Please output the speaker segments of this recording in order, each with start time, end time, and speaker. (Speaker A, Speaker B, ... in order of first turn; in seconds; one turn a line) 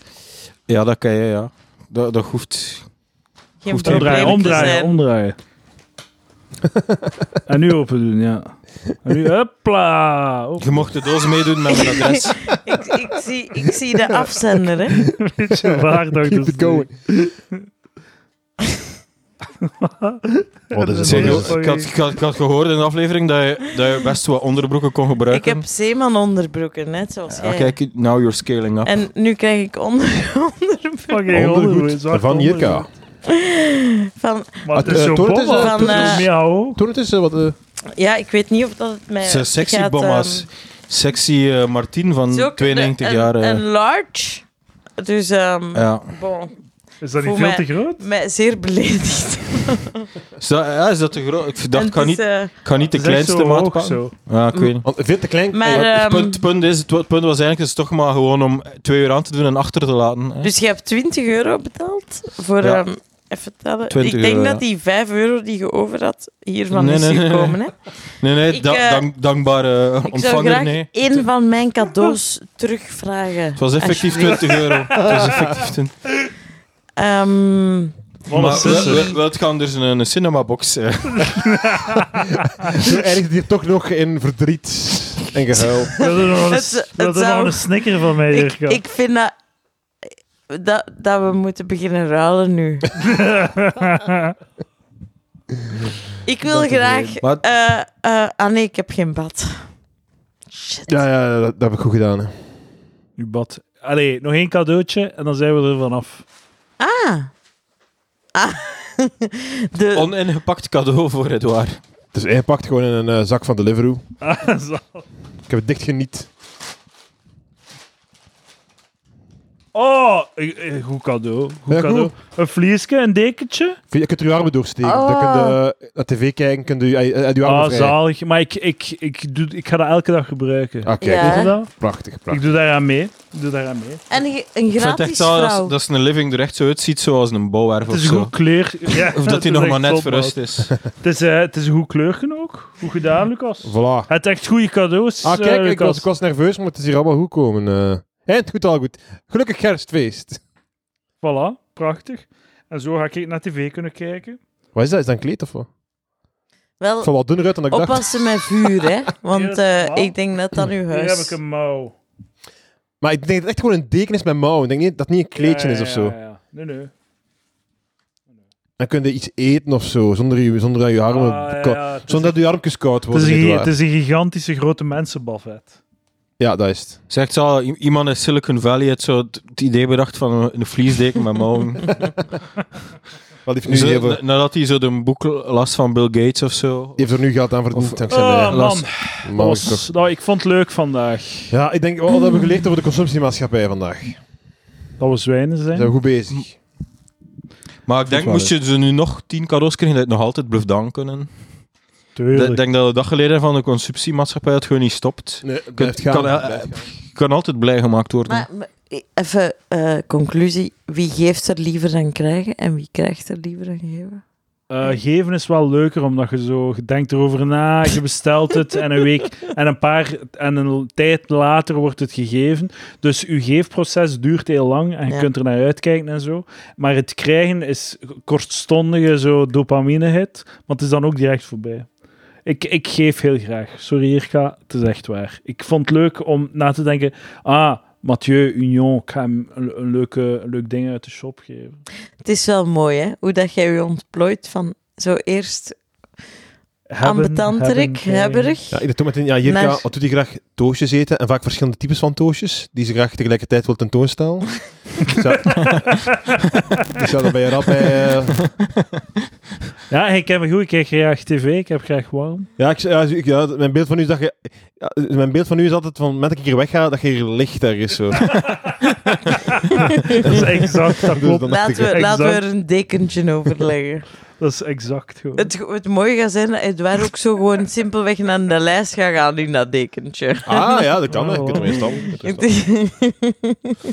Speaker A: 0.7-2.9
Speaker B: 3.6-5.0
Speaker A: 3.7-4.8
Speaker C: 3.8-5.4
Speaker D: 6.6-7.3
Speaker C: 7.5-10.7
Speaker A: 10.6-12.4
Speaker B: 11.7-15.1
Speaker D: 14.9-16.9
Speaker C: 15.2-17.6
Speaker C: 19.6-21.9
Speaker D: 20.7-21.6
Speaker A: 21.0-25.6
Speaker B: 25.3-27.8
Speaker A: 27.3-28.9
Speaker B: 28.9-31.2
Speaker C: 31.1-32.9
Speaker D: 31.3-32.9
Speaker B: 33.3-36.3
Speaker C: 34.6-36.8
Speaker D: 34.7-37.6
Speaker B: 37.9-40.5
Speaker A: 39.2-43.6
Speaker B: 42.3-44.5
Speaker B: 45.0-46.6
Speaker A: 45.7-46.1
Speaker C: 47.0-48.0
Speaker B: 47.2-50.1
Speaker A: 50.4-54.9
Speaker B: 51.7-52.5
Speaker C: 52.8-54.1
Speaker B: 54.5-54.8
Speaker D: 54.8-55.9
Speaker B: 55.5-56.4
Speaker A: 55.7-60.5
Speaker B: 60.4-67.7
Speaker A: 63.9-64.6
Speaker A: 66.7-67.6
Speaker A: 68.2-71.2
Speaker B: 68.5-69.0
Speaker B: 70.0-75.2
Speaker A: 73.6-76.1
Speaker D: 75.0-75.5
Speaker B: 77.0-79.2
Speaker C: 78.3-79.0
Speaker A: 78.3-81.6
Speaker C: 81.1-82.9
Speaker D: 82.6-86.0
Speaker B: 85.6-89.3
Speaker C: 86.0-88.8
Speaker B: 90.5-92.9
Speaker C: 93.0-94.3
Speaker B: 96.2-99.7
Speaker C: 96.5-97.2
Speaker B: 100.5-101.0
Speaker D: 100.9-102.3
Speaker C: 103.2-106.2
Speaker B: 106.8-107.3
Speaker B: 108.3-110.1
Speaker A: 109.9-111.8
Speaker D: 112.1-114.0
Speaker C: 114.2-115.0
Speaker D: 115.5-116.3
Speaker C: 119.7-123.8
Speaker D: 121.7-122.1
Speaker D: 123.9-128.0
Speaker B: 124.8-125.6
Speaker C: 127.4-131.7
Speaker D: 130.8-132.5
Speaker B: 131.0-131.6
Speaker C: 132.3-134.1
Speaker B: 134.1-135.8
Speaker A: 134.8-138.3
Speaker C: 137.9-140.4
Speaker A: 138.9-140.8
Speaker C: 141.0-146.1
Speaker D: 143.6-144.1
Speaker D: 145.2-150.4
Speaker C: 151.2-154.4
Speaker D: 154.8-155.7
Speaker B: 156.8-157.1
Speaker D: 157.0-158.9
Speaker B: 157.7-161.4
Speaker C: 159.3-160.2
Speaker C: 160.9-161.9
Speaker D: 163.0-166.2
Speaker C: 165.3-166.9
Speaker D: 168.8-173.7
Speaker C: 171.1-172.4
Speaker C: 173.1-175.8
Speaker D: 176.4-177.0
Speaker A: 177.1-182.0
Speaker D: 183.4-184.2
Speaker A: 183.7-187.2
Speaker D: 187.0-188.6
Speaker A: 187.7-188.9
Speaker C: 188.1-191.6
Speaker D: 189.2-189.9
Speaker D: 191.5-194.2
Speaker C: 195.0-195.9
Speaker D: 195.7-196.5
Speaker A: 197.9-201.3
Speaker C: 198.1-198.5
Speaker C: 202.2-202.6
Speaker A: 202.3-208.5
Speaker D: 205.4-206.8
Speaker B: 208.3-214.2
Speaker C: 214.7-231.9
Speaker C: 232.4-241.8
Speaker B: 242.2-245.8
Speaker C: 246.9-248.5
Speaker B: 247.0-248.8
Speaker D: 248.7-256.1
Speaker B: 249.4-249.8
Speaker C: 255.5-256.2
Speaker D: 256.9-258.4
Speaker C: 259.9-262.5
Speaker D: 262.6-268.4
Speaker C: 269.7-272.4
Speaker D: 270.1-272.1
Speaker B: 271.4-274.1
Speaker C: 274.4-275.5
Speaker B: 275.4-280.9
Speaker D: 280.4-282.5
Speaker C: 281.1-282.0
Speaker B: 281.6-283.8